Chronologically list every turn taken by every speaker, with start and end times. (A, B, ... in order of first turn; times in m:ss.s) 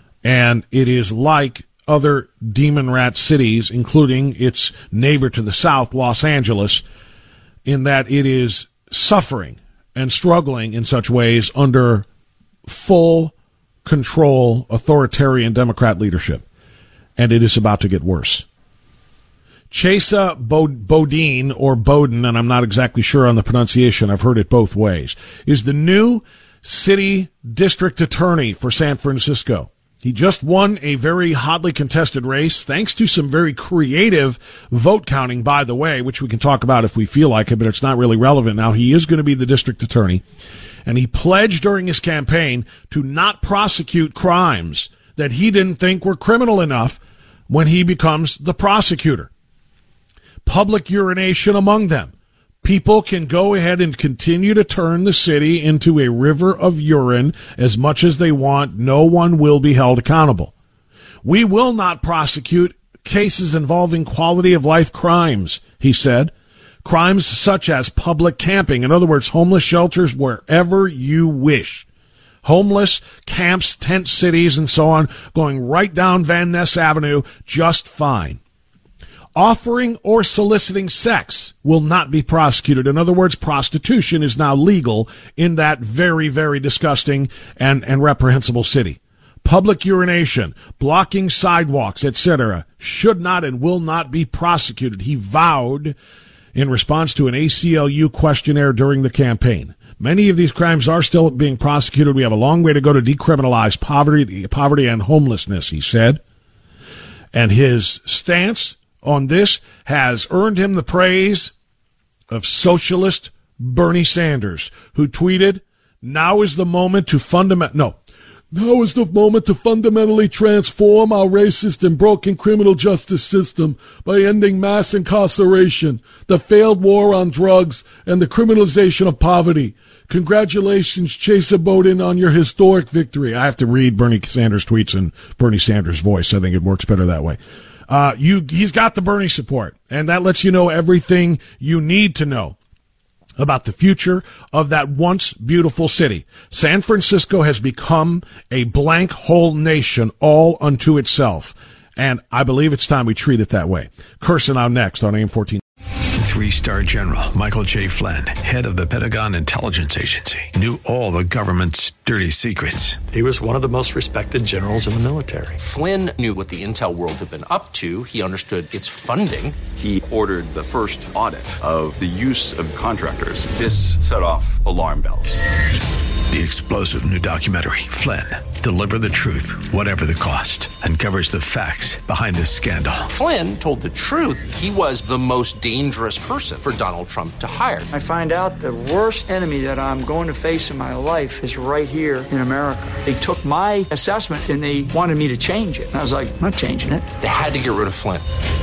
0:00.2-0:06.8 A
0:07.6-0:12.0 A
0:12.6-0:13.3 A
0:13.8-0:16.4 A
0:17.2-0:18.4 A
0:19.7-0:40.2 A
0:40.8-0:49.3 A
0:50.4-0:52.1 A
0:52.6-1:00.5 A
1:01.2-1:06.3 A
1:06.8-1:11.9 A
1:12.4-1:18.4 A
1:19.3-1:36.0 A
1:36.5-1:46.2 A
1:47.3-1:51.5 A
1:52.3-1:58.0 A
1:58.5-2:22.6 A
2:23.4-2:35.6 A
2:36.2-2:43.0 B
2:43.1-2:45.6 C
2:45.6-2:49.6 D
2:49.7-2:55.4 E
2:56.3-3:03.1 B
3:03.1-3:07.9 D
3:07.9-3:17.1 F
3:17.2-3:18.2 D